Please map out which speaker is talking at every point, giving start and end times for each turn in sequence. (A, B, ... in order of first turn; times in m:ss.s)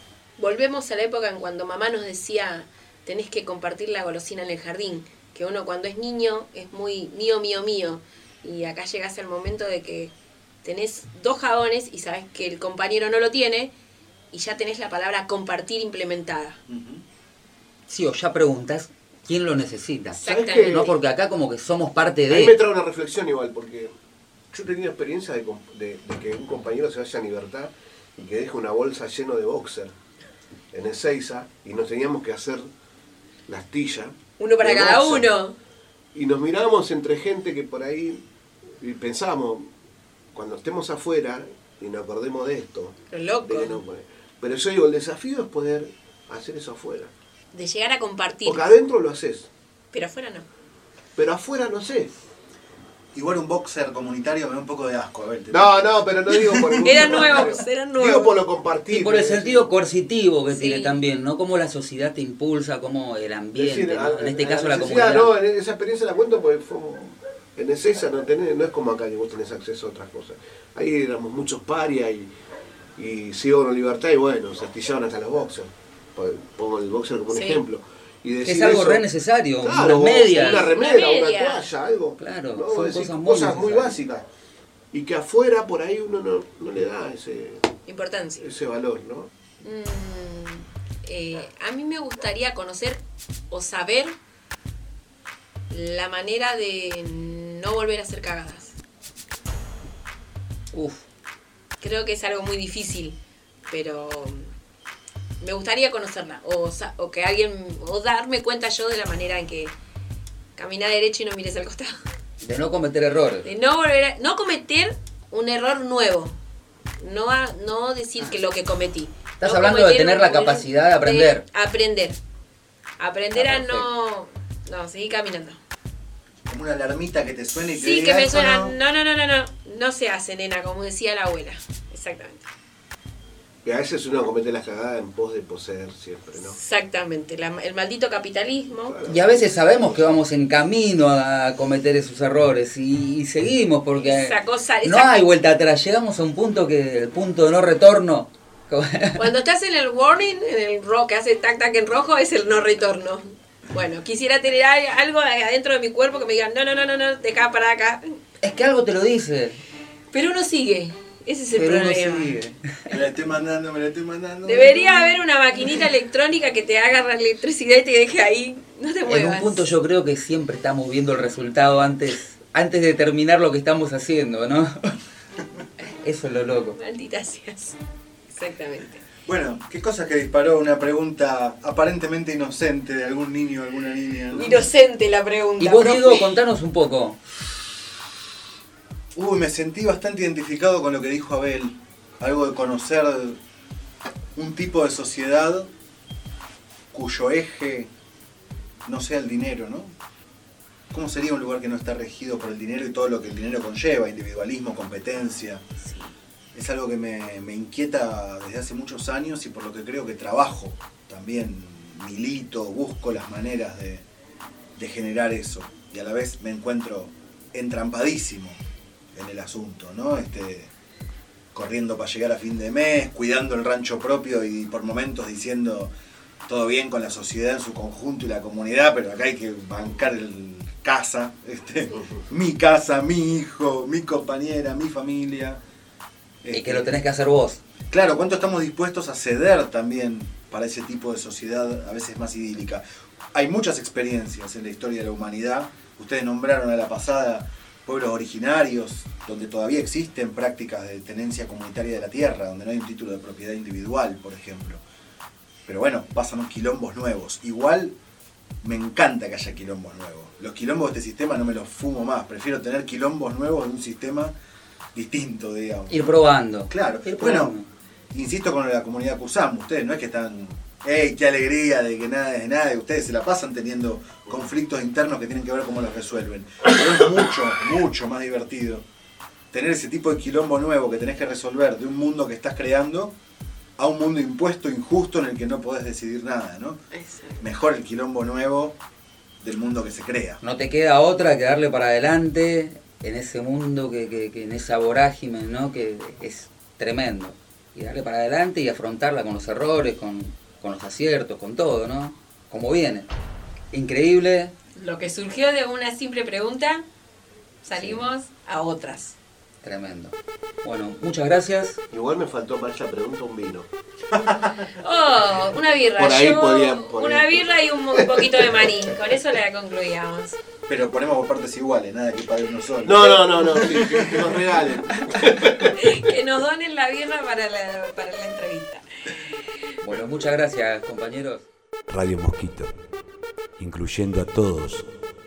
0:00.4-0:10.1 A
0:10.6-0:13.7 A
0:14.3-0:16.6 A
0:16.7-0:17.0 B
0:17.9-0:22.6 C
0:20.1-0:20.9 A
0:20.3-0:20.9 D
0:22.3-0:23.9 D
0:24.5-0:29.9 D
0:30.7-0:32.6 D
0:33.5-0:35.3 D
0:34.4-0:35.6 A
0:36.1-0:38.2 D
0:38.8-0:39.7 D
0:40.3-0:47.1 D
0:43.1-0:43.8 A
0:47.5-0:48.7 A
0:48.4-0:49.5 D
0:49.9-0:50.5 A
0:51.2-0:52.1 D
0:53.1-0:57.0 B
0:55.5-0:59.7 D
0:56.8-0:58.4 A
0:58.9-1:05.3 C
1:00.5-1:01.0 A
1:03.6-1:12.3 D
1:13.0-1:19.0 D
1:17.3-1:17.6 A
1:18.4-1:20.7 C
1:19.6-1:24.2 D
1:20.5-1:21.7 A
1:22.2-1:24.0 C
1:24.9-1:27.7 D
1:27.8-1:28.4 A
1:28.4-1:29.3 D
1:29.6-1:34.1 A
1:35.7-1:38.8 A
1:40.7-1:41.0 C
1:41.8-1:44.5 A
1:45.4-1:49.7 A
1:50.6-1:52.0 A
1:52.4-1:53.5 C
1:53.4-1:56.4 A
1:57.0-2:02.2 A
1:59.4-2:01.4 C
2:03.0-2:05.6 A
2:03.3-2:03.8 C
2:06.4-2:08.8 B
2:07.7-2:12.5 A
2:13.6-2:16.6 D
2:16.4-2:19.0 A
2:18.8-2:20.2 D
2:19.1-2:29.3 C
2:23.9-2:25.2 A
2:29.2-2:38.0 A
2:38.4-2:39.6 C
2:40.1-2:42.4 A
2:41.5-2:42.6 C
2:42.9-2:45.2 B
2:44.4-2:49.6 A
2:49.0-2:55.0 C
2:56.0-2:56.8 C
2:56.8-2:57.8 A
2:58.3-2:59.0 A
2:59.2-3:04.6 B
3:04.3-3:06.3 A
3:05.6-3:07.2 C
3:09.1-3:13.4 B
3:14.4-3:15.7 B
3:16.9-3:17.9 B
3:18.9-3:19.9 B
3:20.9-3:25.6 B
3:25.8-3:26.1 A
3:26.5-3:34.0 B
3:34.8-3:38.6 B
3:39.1-3:40.7 B
3:41.5-3:45.9 B
3:46.4-3:55.6 B
3:56.4-3:56.9 B
3:56.5-3:57.6 C
3:57.9-4:02.8 B
4:03.3-4:14.8 B
4:15.7-4:17.9 B
4:18.6-4:24.3 B
4:24.9-4:26.1 B
4:25.9-4:27.7 C
4:26.7-4:27.6 B
4:28.1-4:38.8 B
4:39.5-4:43.1 B
4:43.8-4:46.8 B
4:46.9-4:47.4 A
4:47.4-4:48.8 B
4:49.4-4:50.4 B
4:50.4-5:03.1 C
5:03.7-5:04.5 C
5:04.8-5:06.8 A
5:07.6-5:09.2 A
5:07.8-5:08.1 C
5:09.6-5:11.8 C
5:11.9-5:13.7 D
5:14.1-5:14.5 B
5:14.7-5:20.4 A
5:16.0-5:18.7 D
5:20.7-5:24.3 B
5:22.8-5:25.7 D
5:25.8-5:28.8 A
5:29.8-5:31.5 C
5:31.9-5:32.7 E
5:33.6-5:34.9 E